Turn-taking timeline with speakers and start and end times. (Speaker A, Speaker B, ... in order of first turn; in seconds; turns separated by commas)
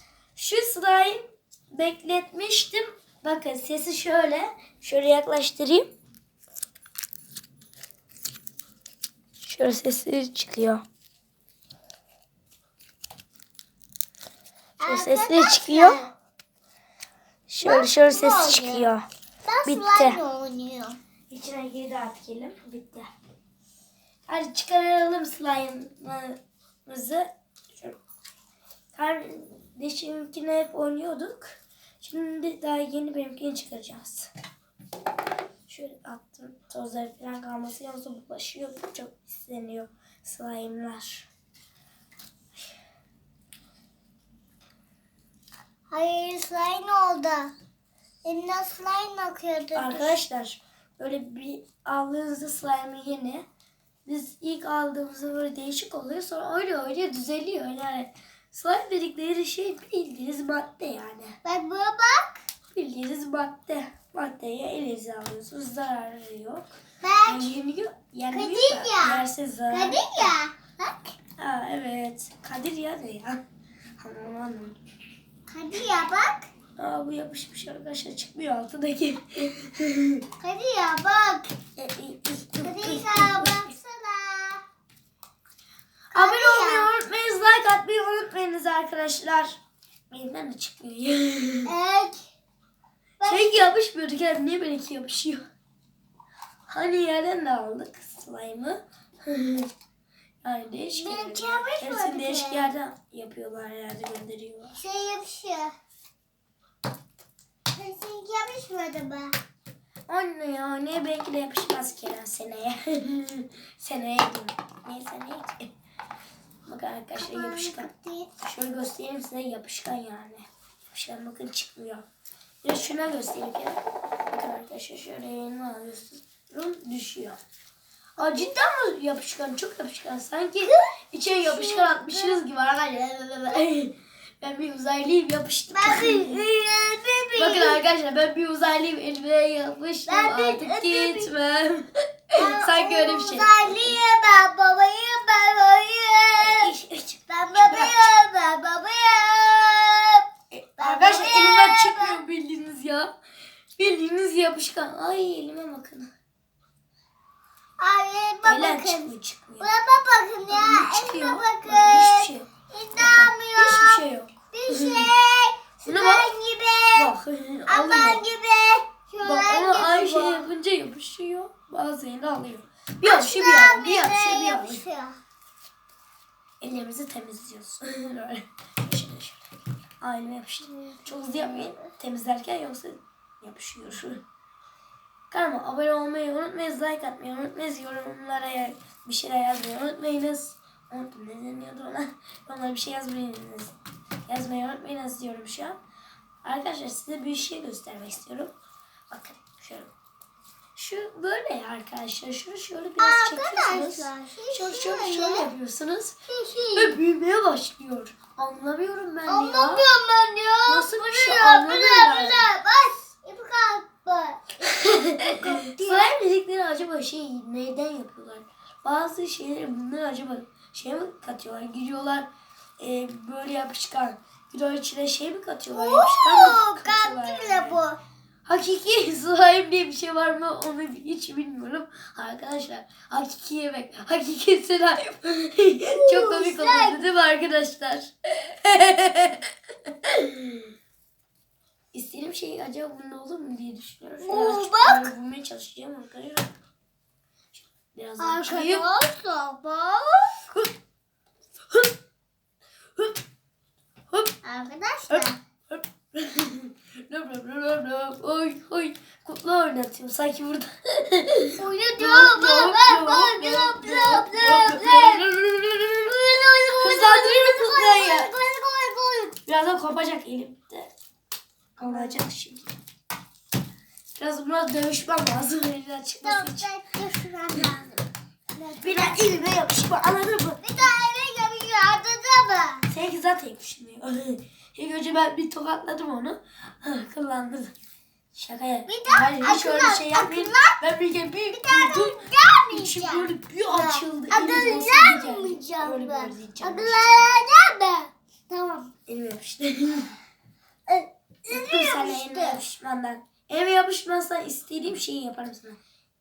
Speaker A: 0.4-5.9, Speaker A: 9.4-10.8, Speaker B: 14.8-16.1, Speaker A: 14.9-16.0, Speaker A: 17.5-19.1, Speaker B: 17.6-18.9, Speaker B: 19.4-21.0, Speaker A: 19.6-20.2, Speaker A: 21.3-23.1, Speaker A: 24.3-28.0, Speaker A: 28.9-34.3, Speaker A: 35.7-41.3, Speaker B: 45.9-47.5, Speaker B: 48.2-50.2, Speaker A: 49.8-53.5, Speaker A: 54.1-61.4, Speaker B: 61.4-62.4, Speaker A: 62.7-66.7, Speaker B: 67.0-67.5, Speaker A: 67.2-70.3, Speaker B: 68.3-71.1, Speaker A: 71.4-73.4, Speaker A: 74.0-74.8, Speaker B: 75.5-76.5, Speaker A: 76.8-80.2, Speaker B: 80.4-81.5, Speaker A: 81.8-83.7, Speaker B: 82.6-84.6, Speaker B: 86.1-86.9, Speaker A: 86.1-89.6, Speaker A: 90.1-91.7, Speaker B: 91.7-92.2, Speaker B: 93.2-93.7, Speaker A: 93.2-95.4, Speaker A: 96.7-99.7, Speaker A: 100.4-104.8, Speaker B: 100.9-102.7, Speaker B: 104.8-105.7, Speaker B: 107.8-109.4, Speaker A: 110.1-115.7, Speaker A: 116.7-117.9, Speaker B: 117.2-118.3, Speaker A: 118.4-122.0, Speaker A: 122.6-127.4, Speaker A: 128.2-136.4, Speaker B: 128.2-128.5, Speaker B: 130.6-132.4, Speaker B: 135.7-137.8, Speaker A: 137.4-144.0, Speaker B: 140.1-141.3, Speaker B: 142.4-146.7, Speaker A: 146.4-148.2, Speaker B: 147.3-150.3, Speaker A: 150.5-153.1, Speaker B: 150.8-152.2, Speaker A: 153.8-156.1, Speaker B: 157.8-167.1, Speaker A: 158.4-159.7, Speaker A: 160.5-165.1, Speaker A: 165.8-166.3, Speaker A: 166.9-168.2, Speaker B: 167.7-170.5, Speaker A: 169.2-174.8, Speaker B: 173.0-175.2, Speaker A: 176.6-179.4, Speaker A: 180.0-184.2, Speaker B: 180.7-181.9, Speaker A: 185.3-193.7, Speaker A: 194.3-195.8, Speaker A: 196.4-198.5, Speaker A: 199.1-199.9, Speaker A: 200.8-206.2, Speaker B: 203.0-205.5, Speaker B: 206.3-207.0, Speaker A: 206.8-209.9, Speaker B: 209.3-216.2, Speaker A: 210.7-212.5, Speaker A: 214.7-227.8, Speaker B: 225.7-228.0, Speaker A: 228.5-240.7, Speaker B: 235.9-237.0, Speaker A: 241.9-246.5, Speaker B: 244.2-245.1, Speaker A: 247.5-248.9, Speaker B: 248.2-250.4, Speaker B: 254.4-255.4, Speaker A: 255.1-266.1, Speaker B: 261.6-265.2, Speaker B: 266.1-269.4, Speaker A: 266.8-268.3, Speaker A: 269.5-270.9, Speaker A: 271.8-272.6, Speaker B: 271.8-272.2, Speaker A: 274.1-276.7, Speaker B: 276.2-279.4, Speaker A: 278.8-280.6, Speaker B: 280.6-282.9, Speaker A: 282.9-287.7, Speaker A: 288.4-297.0, Speaker B: 288.9-290.8, Speaker B: 291.5-298.9, Speaker A: 299.1-300.1, Speaker B: 300.9-302.6, Speaker A: 301.5-305.8